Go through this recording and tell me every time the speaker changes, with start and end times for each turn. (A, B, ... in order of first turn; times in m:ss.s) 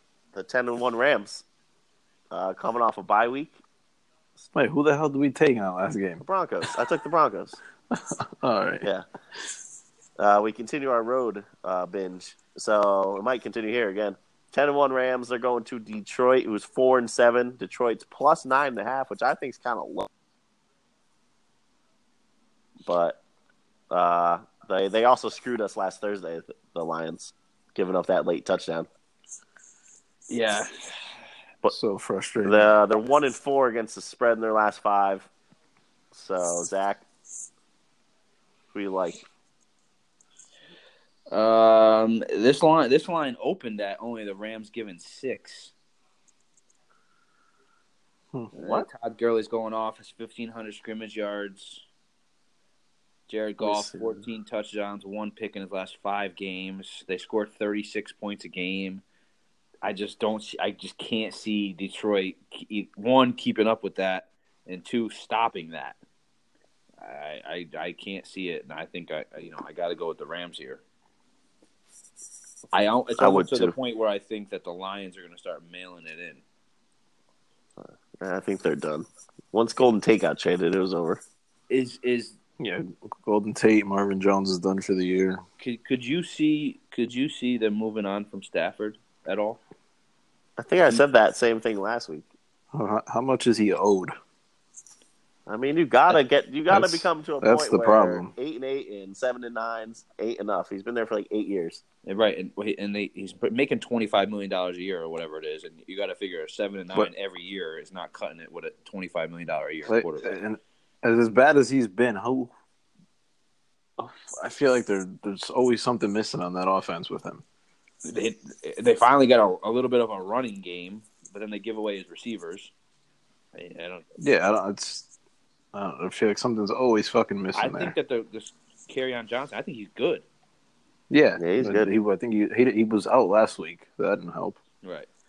0:00.3-0:01.4 A
0:02.3-0:03.6 A
0:04.5-0:06.7 B
0:06.2-0:07.6 A
0:07.9-0:08.9 B
0:10.2-0:20.1 A
0:22.8-0:23.2 A
0:23.9-0:28.9 A
0:30.3-0:30.6 B
0:31.6-0:32.7 B
0:32.4-0:35.3 A
0:36.1-0:37.1 A
0:38.7-0:39.2 A
0:41.3-0:45.7 C
0:48.3-0:48.8 B
0:48.6-0:51.8 C
0:53.3-0:59.0 C
0:53.6-0:54.1 B
0:59.8-1:06.0 C
1:07.0-1:10.8 C
1:12.7-1:16.4 C
1:13.2-1:13.8 A
1:17.8-1:21.2 A
1:21.7-1:22.4 C
1:22.6-1:25.4 B
1:25.6-1:29.6 C
1:30.6-1:32.3 A
1:32.7-1:34.1 B
1:35.5-1:41.8 A
1:36.7-1:38.3 B
1:42.0-1:50.3 C
1:49.9-1:52.5 B
1:54.0-1:57.4 B
1:58.0-2:02.7 C
2:03.5-2:04.1 C
2:04.2-2:05.1 B
2:05.7-2:07.9 B
2:07.5-2:10.3 C
2:11.1-2:14.6 B
2:11.4-2:11.9 A
2:14.8-2:15.1 C